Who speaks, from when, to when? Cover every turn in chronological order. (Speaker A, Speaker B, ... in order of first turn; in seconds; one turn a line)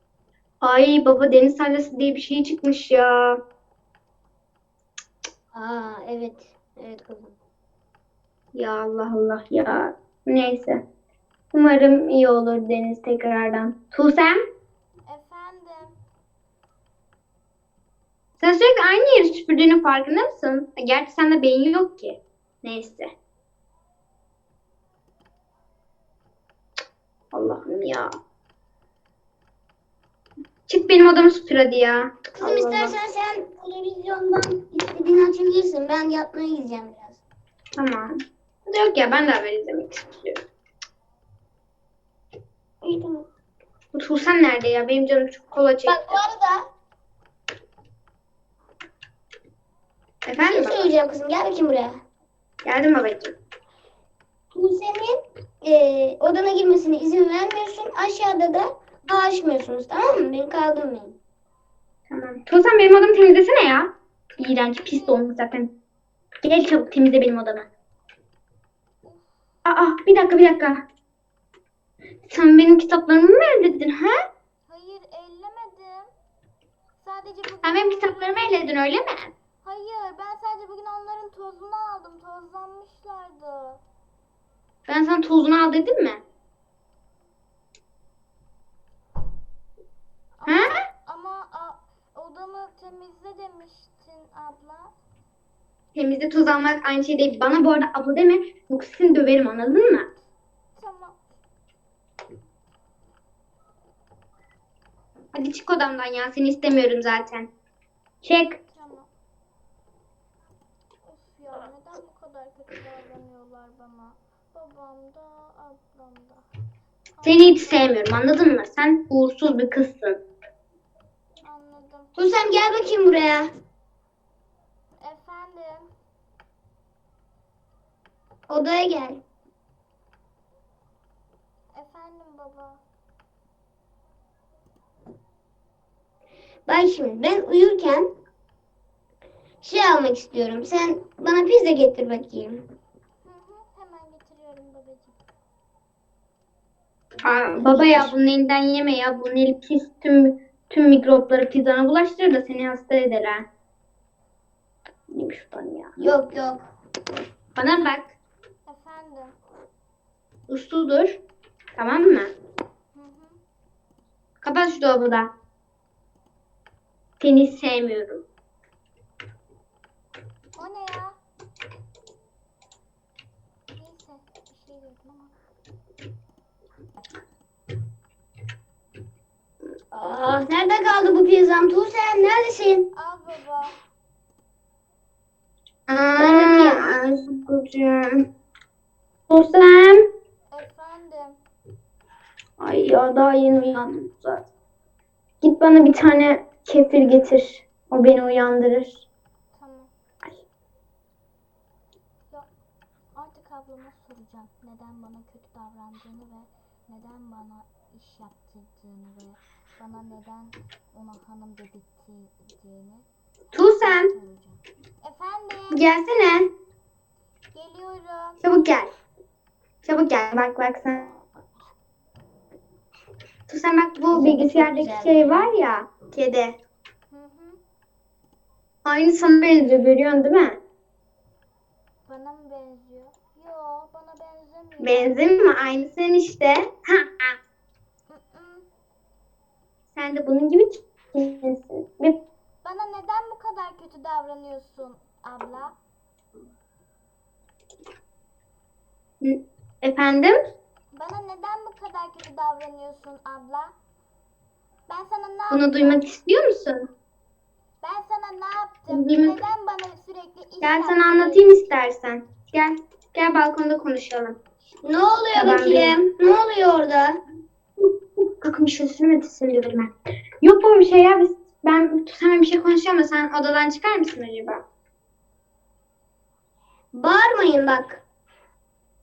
Speaker A: 0.6-3.4
Speaker B: 5.5-7.3
Speaker A: 8.5-10.8
Speaker A: 11.5-14.4
Speaker C: 15.1-15.9
Speaker A: 18.4-23.1
Speaker A: 27.3-28.1
Speaker A: 30.7-32.9
Speaker B: 32.4-37.2
Speaker A: 37.8-38.1
Speaker A: 38.7-40.4
Speaker B: 42.8-43.2
Speaker A: 43.9-46.2
Speaker B: 45.9-46.6
Speaker A: 50.2-50.9
Speaker B: 50.4-52.0
Speaker A: 52.6-53.3
Speaker B: 54.5-61.1
Speaker A: 62.1-65.7
Speaker C: 64.7-65.3
Speaker A: 66.4-67.7
Speaker C: 69.0-69.3
Speaker A: 69.7-70.8
Speaker A: 72.3-74.1
Speaker C: 74.7-76.1
Speaker C: 77.0-78.6
Speaker A: 77.6-79.3
Speaker C: 79.6-83.8
Speaker A: 84.9-86.2
Speaker C: 90.4-94.9
Speaker A: 95.9-100.1
Speaker C: 100.7-101.2
Speaker A: 105.3-107.5
Speaker A: 108.2-108.6
Speaker C: 108.7-109.1
Speaker C: 111.0-116.5
Speaker C: 117.1-118.0
Speaker A: 117.2-120.2
Speaker C: 121.4-122.1
Speaker B: 122.2-123.5
Speaker C: 125.0-125.9
Speaker B: 128.5-129.2
Speaker C: 131.7-132.8
Speaker B: 136.7-138.1
Speaker B: 139.6-142.6
Speaker C: 143.2-145.2
Speaker A: 147.2-153.4
Speaker B: 147.5-148.1
Speaker A: 155.1-155.9
Speaker B: 156.0-156.6
Speaker A: 157.6-158.1
Speaker C: 158.7-159.3
Speaker A: 160.5-161.2
Speaker A: 161.8-162.3
Speaker C: 162.9-163.4
Speaker A: 164.4-165.3
Speaker A: 167.2-168.2
Speaker C: 170.6-171.2
Speaker C: 173.7-175.3
Speaker B: 179.9-182.9
Speaker C: 182.9-183.8
Speaker A: 185.9-188.2
Speaker B: 186.2-186.9
Speaker A: 189.3-190.0
Speaker C: 190.5-191.4
Speaker A: 192.6-194.4
Speaker A: 195.4-199.1
Speaker C: 199.5-199.9
Speaker C: 203.1-215.8
Speaker A: 213.5-214.1
Speaker A: 215.7-216.5
Speaker C: 217.5-218.8
Speaker A: 218.4-218.9
Speaker A: 219.8-221.1
Speaker A: 223.5-226.5
Speaker B: 224.1-225.5
Speaker C: 227.1-227.6
Speaker A: 228.8-230.6
Speaker C: 232.0-235.2
Speaker A: 234.8-237.3
Speaker C: 238.1-238.7
Speaker A: 239.9-242.2
Speaker C: 242.6-245.7
Speaker A: 249.2-250.3
Speaker C: 250.9-253.7
Speaker C: 254.9-256.0
Speaker A: 255.5-256.9
Speaker C: 257.8-261.6
Speaker A: 258.9-259.4
Speaker A: 260.6-264.4
Speaker B: 264.8-267.2
Speaker A: 265.3-266.0
Speaker A: 267.8-274.6
Speaker B: 276.9-278.0